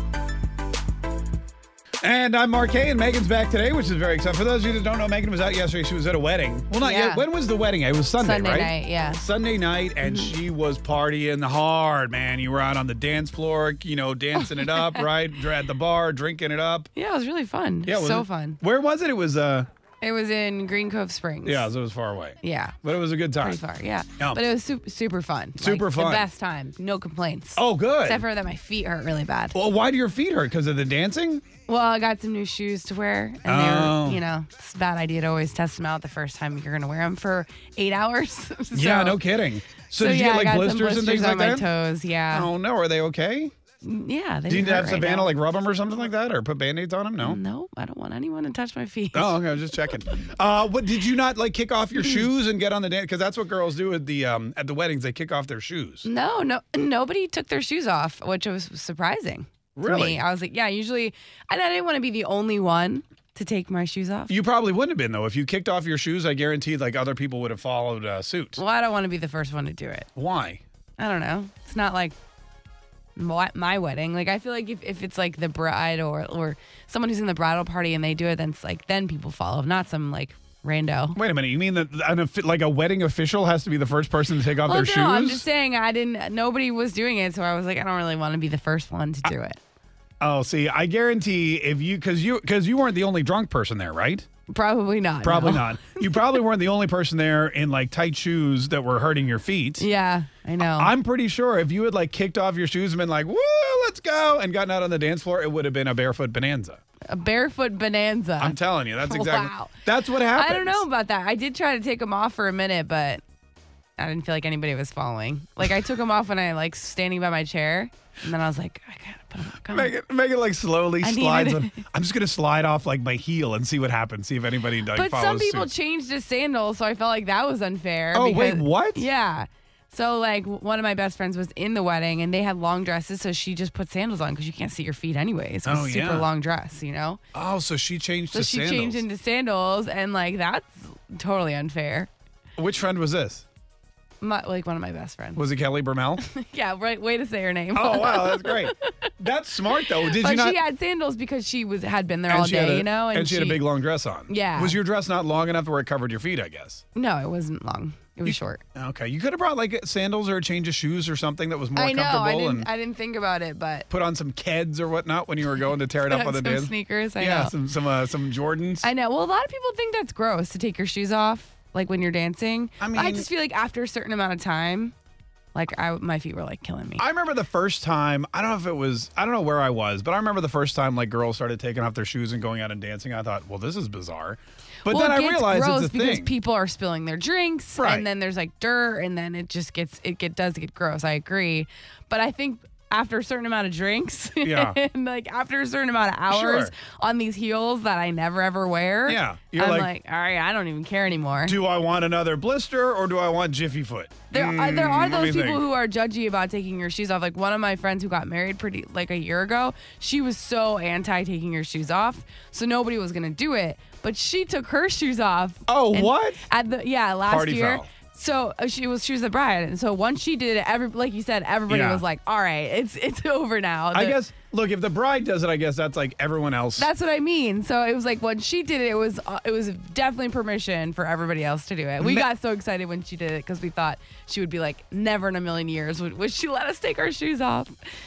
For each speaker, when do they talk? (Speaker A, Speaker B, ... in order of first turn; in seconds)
Speaker A: 2.0-16.9, 17.9-19.7, 21.4-23.6, 25.6-26.3, 27.6-28.2, 29.5-31.4, 33.4-34.2, 38.7-41.7, 42.3-43.5, 44.5-47.4, 49.1-56.1, 59.8-60.2, 64.3-68.6, 70.1-70.6, 81.2-85.5, 90.2-94.2, 95.2-99.8, 100.6-106.8, 108.4-110.8, 119.6-125.7, 128.1-129.0, 135.6-136.3, 137.3-139.0, 142.6-143.4, 145.3-146.2, 147.7-150.6, 152.3-156.8, 158.2-162.7, 163.9-168.9, 172.8-173.3, 177.0-186.3, 187.8-188.1, 194.4-194.8, 196.3-196.7, 199.1-199.9, 201.4-205.7, 215.7-216.4, 217.2-217.9, 221.7-222.0, 223.9-226.9, 232.0-232.3
Speaker B: 6.8-7.2, 8.2-9.2, 10.0-10.3, 14.4-15.1, 16.9-18.6, 20.0-21.7, 22.4-22.8, 23.4-29.5, 31.7-39.2, 40.0-42.5, 43.8-45.3, 47.2-50.0, 56.0-64.3, 68.6-70.1, 71.0-72.1, 73.2-81.2, 84.6-89.6, 94.5-96.3, 99.8-100.9, 107.1-113.2, 114.0-119.9, 121.0-121.8, 124.9-137.2, 138.3-142.1, 144.2-145.5, 146.2-149.1, 149.9-153.6, 154.3-154.8, 156.9-158.6, 161.8-163.9, 166.0-167.5, 168.8-174.9, 175.5-177.0, 184.8-201.6, 204.3-224.2, 226.8-237.8